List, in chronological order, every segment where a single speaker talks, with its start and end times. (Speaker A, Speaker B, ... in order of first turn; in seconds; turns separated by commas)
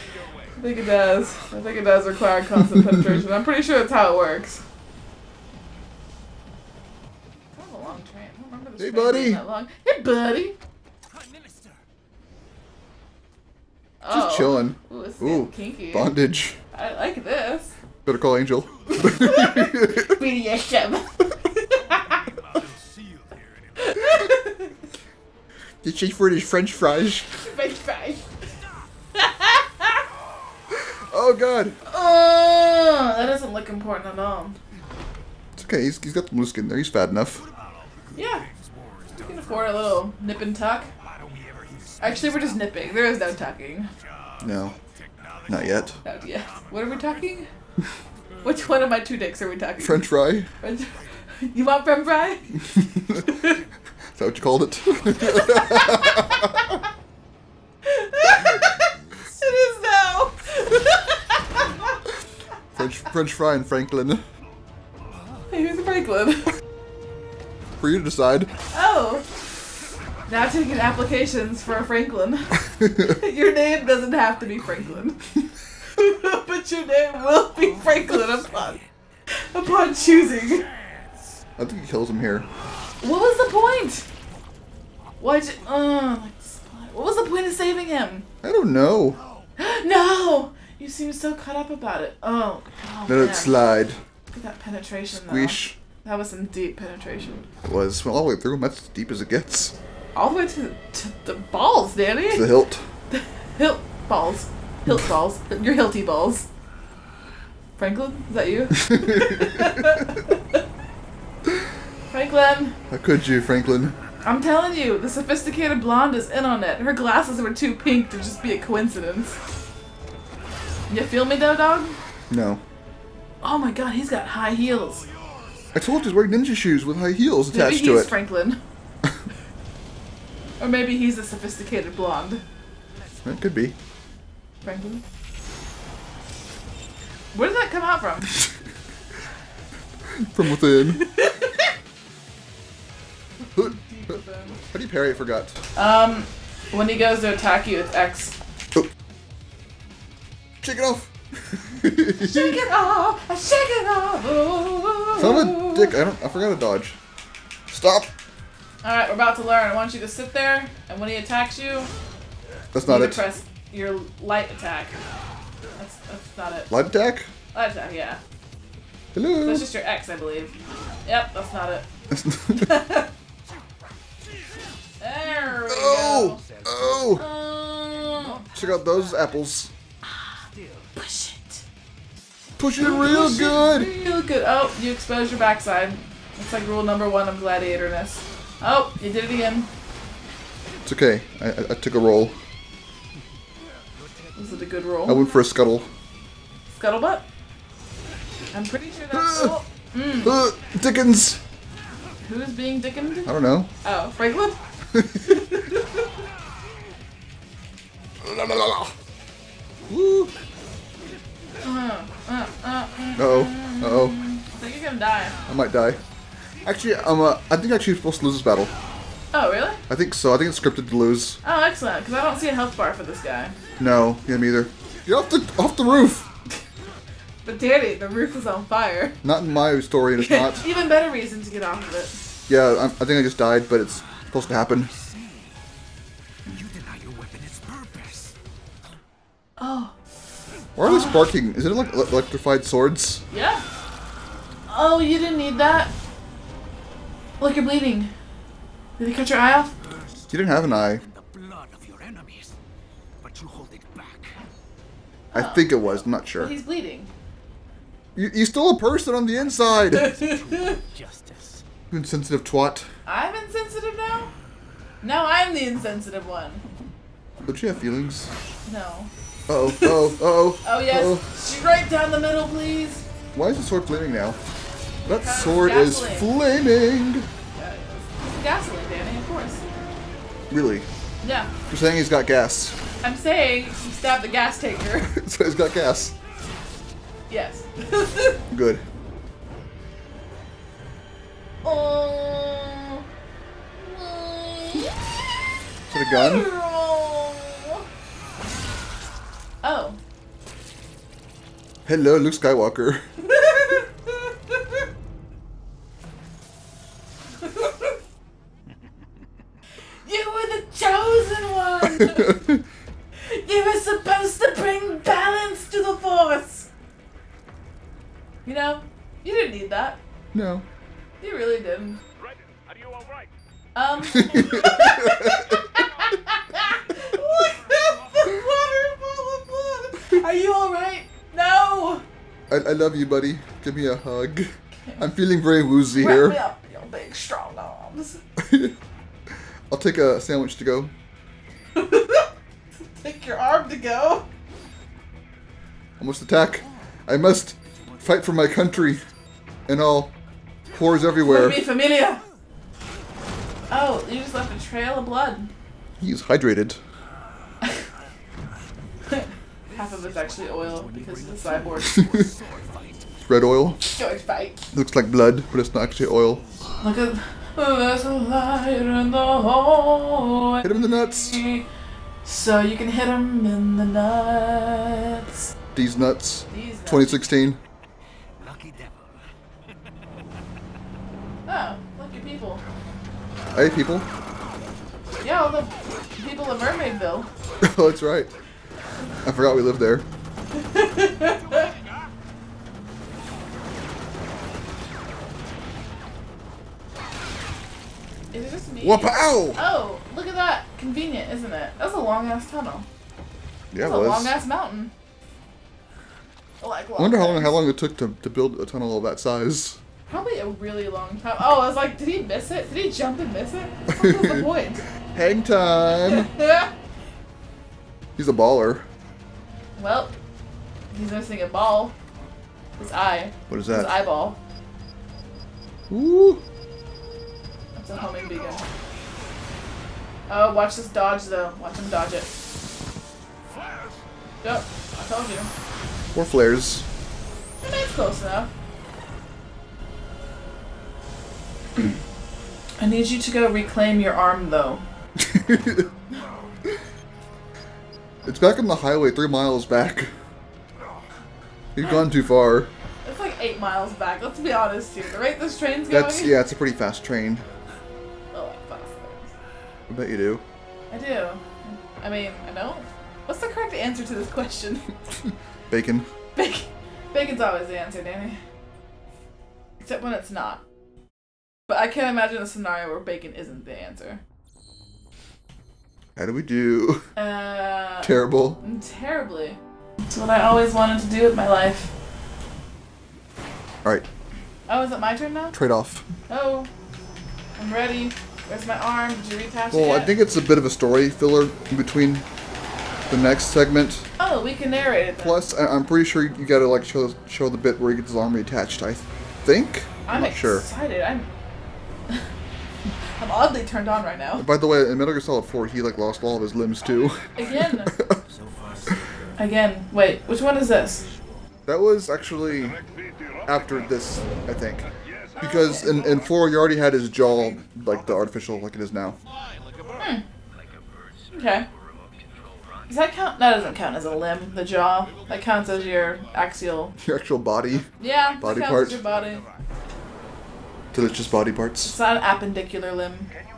Speaker A: 0.6-4.6, Speaker B: 2.7-3.0, Speaker A: 7.5-10.6, Speaker B: 8.8-9.4, Speaker C: 11.1-11.8, Speaker A: 14.0-16.1, Speaker B: 14.1-16.6, Speaker A: 16.7-17.8, Speaker B: 18.1-20.2, Speaker A: 18.9-22.2, Speaker C: 21.9-23.4, Speaker A: 23.8-24.8, Speaker B: 25.8-27.3, Speaker A: 27.3-28.3, Speaker A: 29.1-30.0, Speaker B: 30.7-31.8, Speaker A: 31.9-34.6, Speaker B: 35.6-37.4, Speaker C: 37.5-39.7, Speaker A: 38.1-38.5, Speaker A: 39.1-40.9, Speaker C: 41.0-42.7, Speaker A: 42.0-43.9, Speaker B: 44.4-44.8, Speaker C: 45.2-45.9, Speaker B: 45.5-46.0, Speaker A: 46.0-47.5, Speaker A: 48.4-50.1, Speaker B: 49.8-50.5, Speaker A: 50.6-53.6, Speaker B: 52.6-53.3, Speaker B: 54.2-56.8, Speaker A: 55.2-56.8, Speaker A: 57.8-62.0, Speaker B: 62.8-64.2, Speaker A: 65.5-66.5, Speaker B: 67.8-68.5, Speaker A: 68.7-69.3, Speaker A: 70.3-75.2, Speaker B: 72.7-73.2, Speaker A: 75.9-78.8, Speaker C: 77.6-78.9, Speaker A: 79.3-80.7, Speaker B: 81.6-82.5, Speaker A: 83.0-84.1, Speaker A: 85.2-88.3, Speaker B: 88.4-89.2, Speaker A: 89.6-93.6, Speaker B: 93.1-94.0, Speaker A: 94.3-97.5, Speaker B: 95.1-95.8, Speaker B: 97.6-99.8, Speaker A: 100.2-102.5, Speaker B: 102.3-102.8, Speaker A: 103.1-106.5, Speaker A: 107.8-110.6, Speaker B: 108.8-110.0, Speaker A: 112.1-112.8, Speaker B: 112.9-114.0, Speaker A: 114.2-119.4, Speaker A: 120.9-122.0, Speaker B: 122.3-122.6, Speaker A: 123.4-125.1, Speaker B: 125.7-128.2, Speaker A: 127.5-128.6, Speaker A: 130.6-132.4, Speaker B: 133.2-133.8, Speaker A: 134.6-135.0, Speaker A: 137.3-138.4, Speaker B: 140.1-141.0, Speaker A: 140.8-141.7, Speaker A: 143.4-144.6, Speaker B: 143.6-145.6, Speaker A: 145.8-148.4, Speaker B: 150.6-152.6, Speaker A: 152.2-155.9, Speaker B: 155.2-157.0, Speaker B: 157.7-158.1, Speaker A: 158.8-161.9, Speaker B: 162.7-163.3, Speaker A: 162.8-165.0, Speaker A: 165.8-166.7, Speaker B: 166.7-167.3, Speaker A: 167.5-168.2, Speaker B: 169.1-169.7, Speaker A: 169.4-170.5, Speaker A: 171.1-171.9, Speaker B: 172.1-172.8, Speaker A: 172.6-173.1, Speaker A: 175.0-176.4, Speaker B: 175.7-177.2, Speaker C: 176.4-177.2, Speaker A: 177.1-178.5, Speaker C: 178.2-179.3, Speaker B: 178.5-179.7, Speaker A: 180.1-180.3, Speaker C: 180.4-180.9, Speaker A: 180.9-181.6, Speaker B: 182.6-183.9, Speaker A: 182.8-189.7, Speaker B: 190.8-192.4, Speaker C: 194.0-194.5, Speaker A: 194.4-195.3, Speaker B: 195.1-195.9, Speaker A: 196.7-197.2, Speaker A: 198.5-200.4, Speaker B: 199.1-199.6, Speaker B: 200.2-201.4, Speaker A: 202.2-204.6, Speaker B: 203.2-203.7, Speaker B: 204.9-205.6, Speaker A: 205.2-206.1, Speaker B: 208.2-208.9, Speaker B: 209.9-210.3, Speaker A: 211.6-215.4, Speaker B: 213.2-214.2, Speaker B: 215.5-216.0, Speaker B: 216.6-218.7, Speaker A: 219.3-219.8, Speaker B: 219.9-221.4, Speaker A: 221.4-223.6, Speaker B: 223.8-226.3, Speaker A: 227.4-229.2, Speaker B: 229.2-230.7, Speaker A: 230.2-232.3, Speaker B: 232.5-234.9, Speaker C: 234.1-235.6, Speaker C: 236.5-238.4, Speaker A: 239.6-239.9, Speaker B: 240.8-243.2, Speaker A: 240.8-241.3, Speaker A: 243.3-243.6, Speaker A: 244.7-245.9, Speaker A: 247.4-248.1, Speaker A: 249.0-249.7, Speaker C: 250.2-252.6, Speaker B: 250.3-251.0, Speaker C: 253.2-254.4, Speaker A: 255.3-255.8, Speaker B: 255.3-256.5, Speaker A: 256.4-257.1, Speaker B: 258.2-260.1, Speaker C: 259.4-261.6, Speaker A: 259.9-260.8, Speaker B: 261.9-262.9, Speaker A: 263.1-264.3, Speaker A: 265.0-266.7, Speaker B: 267.4-268.3, Speaker A: 268.6-269.1, Speaker B: 269.5-271.2, Speaker A: 269.6-273.1, Speaker B: 273.3-274.4, Speaker B: 275.1-277.3, Speaker A: 275.2-276.3, Speaker A: 277.5-279.6, Speaker B: 280.5-280.9, Speaker A: 281.2-281.5, Speaker B: 281.7-282.8, Speaker A: 283.0-285.1, Speaker B: 285.1-286.1, Speaker A: 287.3-288.4, Speaker B: 288.5-288.8, Speaker A: 291.6-293.0, Speaker A: 293.8-294.9, Speaker B: 295.9-296.5, Speaker A: 296.0-297.8, Speaker A: 299.6-300.0, Speaker B: 301.9-303.3, Speaker A: 303.2-304.8, Speaker A: 307.4-307.9, Speaker A: 310.0-312.4, Speaker B: 312.0-312.6, Speaker A: 313.2-316.7, Speaker A: 318.4-320.0, Speaker B: 320.3-320.7, Speaker A: 321.2-322.0, Speaker A: 323.8-332.1, Speaker B: 324.1-325.7, Speaker B: 332.5-336.4, Speaker A: 335.9-338.2, Speaker B: 338.4-338.8, Speaker B: 339.7-340.9, Speaker A: 341.8-342.3, Speaker A: 342.8-344.3, Speaker B: 346.0-349.0, Speaker B: 349.7-350.1, Speaker B: 350.7-351.7, Speaker A: 351.2-352.2, Speaker A: 353.7-355.5, Speaker B: 356.0-356.8, Speaker A: 359.1-362.0, Speaker C: 359.7-363.1, Speaker B: 361.9-362.3, Speaker B: 363.3-363.8, Speaker A: 363.8-364.6, Speaker B: 364.7-366.4, Speaker A: 366.8-371.7, Speaker B: 370.6-371.4, Speaker A: 372.2-375.5, Speaker B: 375.7-377.6, Speaker A: 376.5-377.2, Speaker C: 378.4-379.3, Speaker A: 381.5-382.6, Speaker B: 383.5-384.1, Speaker A: 385.2-387.3, Speaker B: 387.6-388.3, Speaker B: 389.2-390.1, Speaker A: 390.5-391.7, Speaker A: 398.3-402.9, Speaker B: 398.8-399.6, Speaker B: 403.7-404.4, Speaker A: 403.8-404.9, Speaker A: 406.6-407.6, Speaker B: 407.0-409.8, Speaker A: 410.1-414.9, Speaker B: 413.9-414.5, Speaker B: 415.1-416.3, Speaker A: 416.1-416.7, Speaker B: 418.2-418.9, Speaker A: 419.8-420.1, Speaker A: 420.9-421.9, Speaker A: 422.8-424.4, Speaker B: 423.5-423.9, Speaker B: 425.9-426.4, Speaker A: 427.8-428.6, Speaker A: 430.3-432.3, Speaker A: 434.4-435.5, Speaker B: 436.1-436.9, Speaker A: 437.6-438.5, Speaker A: 442.8-444.8, Speaker B: 445.2-445.9, Speaker B: 448.2-450.1, Speaker B: 451.8-452.7, Speaker A: 453.0-456.4, Speaker B: 455.9-457.4, Speaker A: 458.3-459.3, Speaker B: 459.9-460.4, Speaker A: 460.9-464.9, Speaker B: 465.7-466.1, Speaker A: 466.4-468.4, Speaker A: 469.8-470.6, Speaker A: 471.7-474.2, Speaker B: 476.2-477.1, Speaker A: 477.2-481.9, Speaker B: 478.0-478.6, Speaker A: 484.7-485.6, Speaker B: 485.5-486.1, Speaker A: 486.3-486.7, Speaker A: 487.6-490.1, Speaker B: 489.7-492.2, Speaker B: 493.1-494.1, Speaker A: 494.2-495.4, Speaker B: 495.2-500.6, Speaker A: 500.1-501.3, Speaker A: 503.2-504.5, Speaker B: 504.4-508.2, Speaker A: 507.4-507.9, Speaker C: 508.1-509.2, Speaker A: 509.4-511.0, Speaker B: 511.7-512.8, Speaker B: 513.5-514.9, Speaker B: 515.4-519.2, Speaker A: 515.4-516.0, Speaker A: 520.0-520.2, Speaker A: 521.3-521.7, Speaker A: 522.9-527.0, Speaker B: 527.0-527.9, Speaker A: 528.0-529.4, Speaker B: 528.4-529.0, Speaker B: 530.9-532.0, Speaker A: 531.8-533.3